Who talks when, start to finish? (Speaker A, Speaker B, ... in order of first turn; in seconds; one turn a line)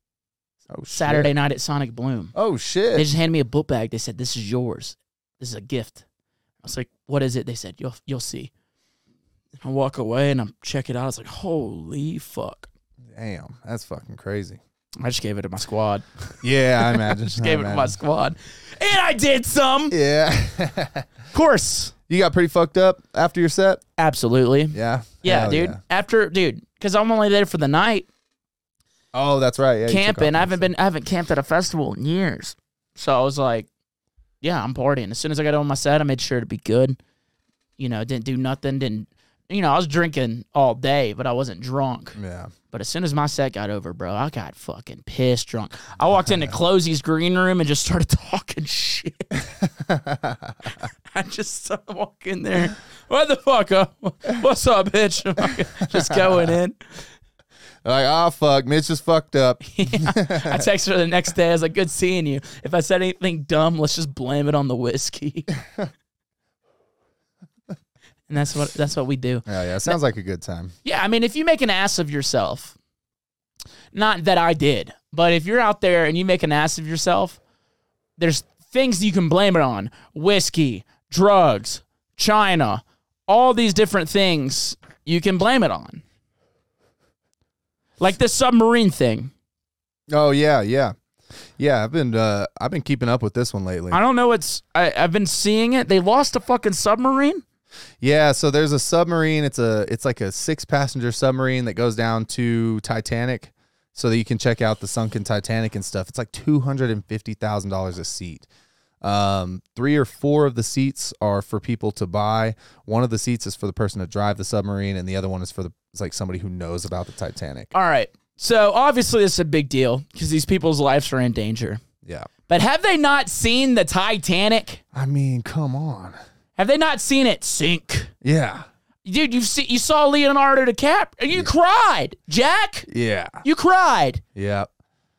Speaker A: 0.7-1.3
Speaker B: 0.9-2.3
Speaker A: 2.4-3.1
Speaker B: 2.9-6.0
Speaker B: 6.6-8.5
Speaker B: 9.6-12.7
Speaker A: 13.1-14.6
Speaker B: 15.0-20.0
Speaker A: 16.4-18.0
Speaker A: 19.9-21.1
Speaker B: 21.3-21.9
Speaker A: 22.1-23.8
Speaker B: 24.0-28.1
Speaker A: 24.7-25.8
Speaker A: 29.1-30.7
Speaker B: 29.9-33.7
Speaker B: 34.4-37.0
Speaker B: 37.8-42.2
Speaker A: 42.2-42.5
Speaker B: 42.7-49.3
Speaker A: 46.3-46.5
Speaker A: 49.6-50.7
Speaker B: 51.1-56.8
Speaker A: 55.9-56.5
Speaker A: 57.8-60.7
Speaker B: 59.7-65.5
Speaker B: 68.3-70.0
Speaker A: 69.5-70.8
Speaker B: 70.8-72.8
Speaker B: 73.9-77.4
Speaker B: 78.2-86.0
Speaker B: 88.0-89.3
Speaker A: 90.1-91.0
Speaker A: 91.6-94.0
Speaker B: 93.9-97.4
Speaker A: 98.0-108.5
Speaker A: 109.0-117.7
Speaker B: 117.7-121.8
Speaker A: 122.0-122.3
Speaker B: 122.5-124.8
Speaker A: 124.9-126.2
Speaker B: 126.6-128.1
Speaker A: 128.2-128.7
Speaker B: 129.1-132.9
Speaker A: 132.9-133.4
Speaker B: 133.4-134.2
Speaker A: 134.3-134.7